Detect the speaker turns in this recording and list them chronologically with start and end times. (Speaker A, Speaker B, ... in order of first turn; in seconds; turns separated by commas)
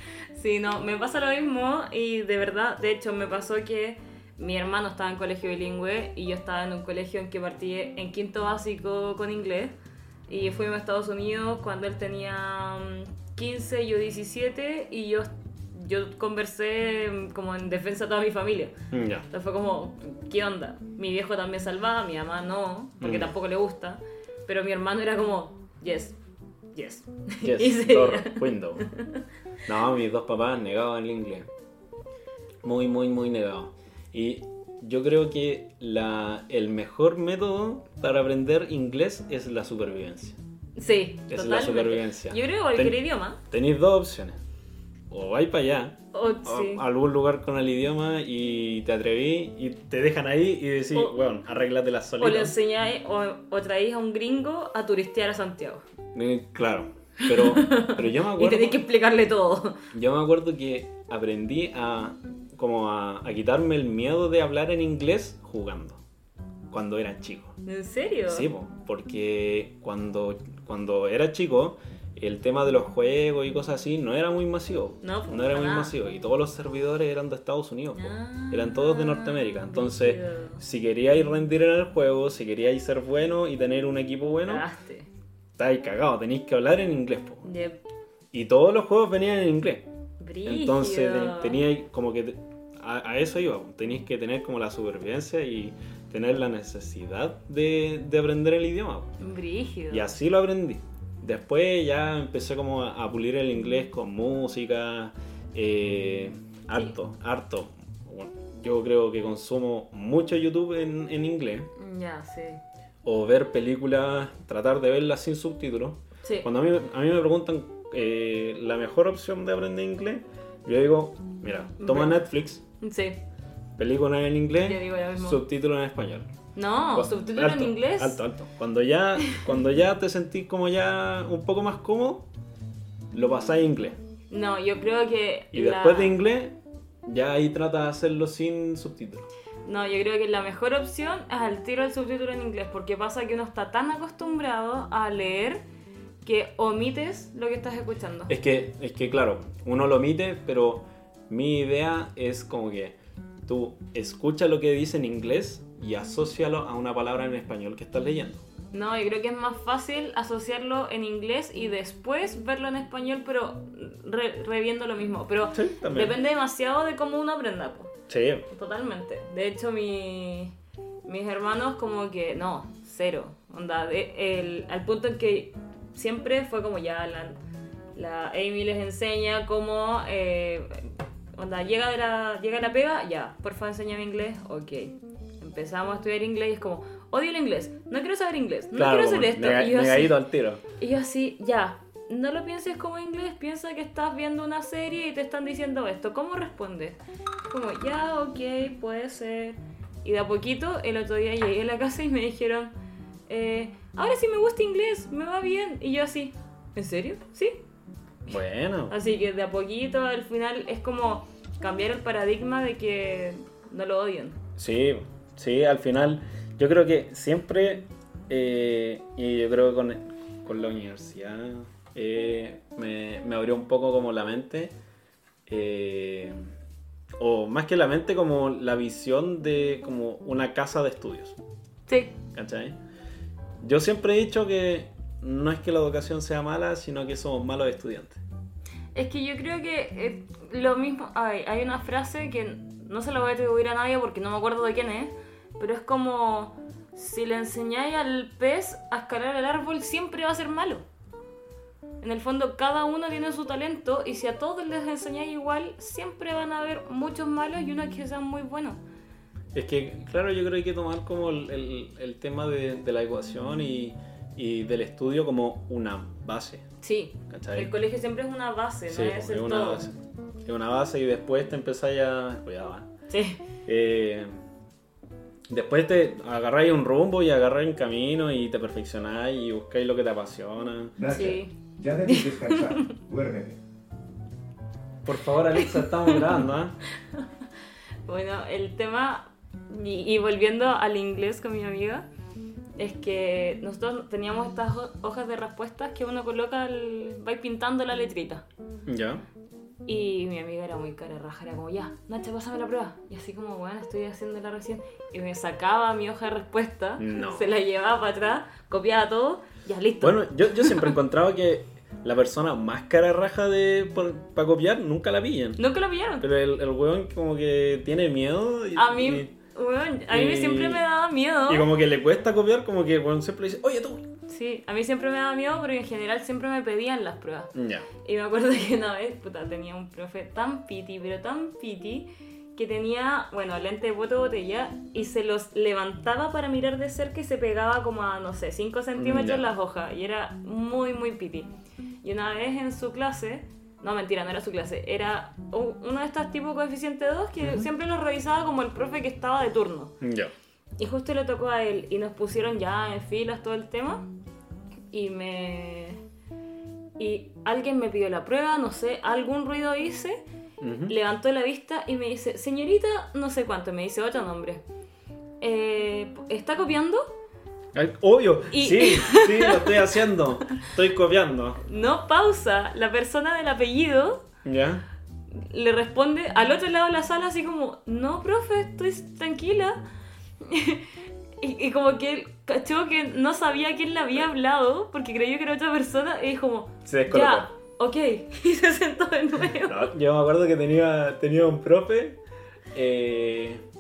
Speaker A: 0.3-9.7, Speaker A: 10.3-18.7, Speaker B: 18.9-19.2, Speaker A: 19.3-26.2, Speaker B: 23.0-23.3, Speaker A: 26.7-29.2, Speaker B: 27.4-28.9, Speaker B: 29.6-31.5, Speaker B: 32.6-40.4, Speaker A: 40.8-43.4, Speaker B: 41.3-44.4, Speaker B: 45.1-52.5, Speaker A: 46.1-46.8, Speaker A: 52.2-55.8, Speaker B: 56.1-58.8, Speaker A: 57.2-59.8, Speaker B: 59.9-66.0, Speaker B: 66.7-67.5, Speaker A: 67.6-68.5, Speaker B: 68.3-84.7, Speaker A: 75.0-75.9, Speaker A: 77.9-80.6, Speaker A: 84.5-85.1, Speaker B: 85.6-87.5, Speaker A: 87.4-87.8, Speaker B: 88.3-89.8, Speaker A: 90.2-91.6, Speaker B: 90.4-99.2, Speaker A: 99.2-100.2, Speaker B: 99.9-111.7, Speaker A: 111.8-112.6, Speaker B: 113.0-122.6, Speaker A: 116.2-116.5, Speaker A: 121.8-122.2, Speaker A: 122.8-123.2, Speaker B: 123.8-126.3, Speaker A: 124.6-125.4, Speaker A: 126.5-128.2, Speaker B: 126.9-132.3, Speaker A: 129.2-129.5, Speaker B: 133.1-134.0, Speaker A: 134.3-136.2, Speaker B: 135.5-139.3, Speaker A: 139.7-145.6, Speaker A: 146.2-148.3, Speaker B: 148.3-158.4, Speaker A: 158.7-167.9, Speaker B: 165.5-166.1, Speaker B: 168.1-168.4, Speaker A: 168.5-170.5, Speaker A: 171.1-177.4, Speaker A: 177.9-190.2, Speaker B: 188.7-190.6, Speaker A: 190.8-202.7, Speaker A: 203.3-207.6, Speaker B: 208.3-208.9, Speaker A: 208.9-214.4, Speaker B: 214.6-224.7, Speaker B: 225.5-226.4, Speaker B: 227.2-231.4, Speaker A: 231.9-232.1, Speaker B: 232.3-232.8, Speaker B: 233.6-238.2, Speaker A: 238.9-250.8, Speaker A: 252.0-258.8, Speaker B: 259.5-266.6, Speaker A: 266.8-269.9, Speaker B: 267.3-267.7, Speaker B: 268.9-272.9, Speaker A: 273.1-273.4, Speaker B: 273.6-274.3, Speaker B: 275.5-281.0, Speaker C: 281.0-283.6, Speaker A: 281.1-281.5, Speaker A: 282.1-282.9, Speaker B: 285.0-286.8, Speaker A: 285.5-286.4, Speaker A: 288.1-292.0, Speaker A: 292.8-298.4, Speaker B: 298.9-299.2, Speaker A: 299.9-310.9, Speaker B: 307.0-307.5, Speaker B: 310.0-315.6, Speaker A: 315.6-316.2, Speaker B: 316.2-319.3, Speaker A: 318.7-321.7, Speaker B: 320.1-320.8, Speaker B: 321.5-324.1, Speaker A: 324.3-327.5, Speaker B: 327.5-327.9, Speaker A: 328.0-341.5, Speaker B: 338.9-339.5, Speaker A: 342.0-349.9, Speaker B: 347.4-347.7, Speaker B: 350.0-350.3, Speaker A: 350.8-354.0, Speaker A: 354.9-356.0, Speaker A: 357.0-360.2, Speaker B: 360.6-360.9, Speaker A: 360.9-364.6, Speaker A: 365.4-367.1, Speaker B: 367.7-371.6, Speaker A: 368.5-369.9, Speaker A: 371.6-374.2, Speaker B: 374.4-374.8, Speaker A: 375.3-379.8, Speaker A: 380.4-389.9, Speaker B: 386.9-387.5, Speaker B: 389.6-392.2, Speaker B: 392.7-393.6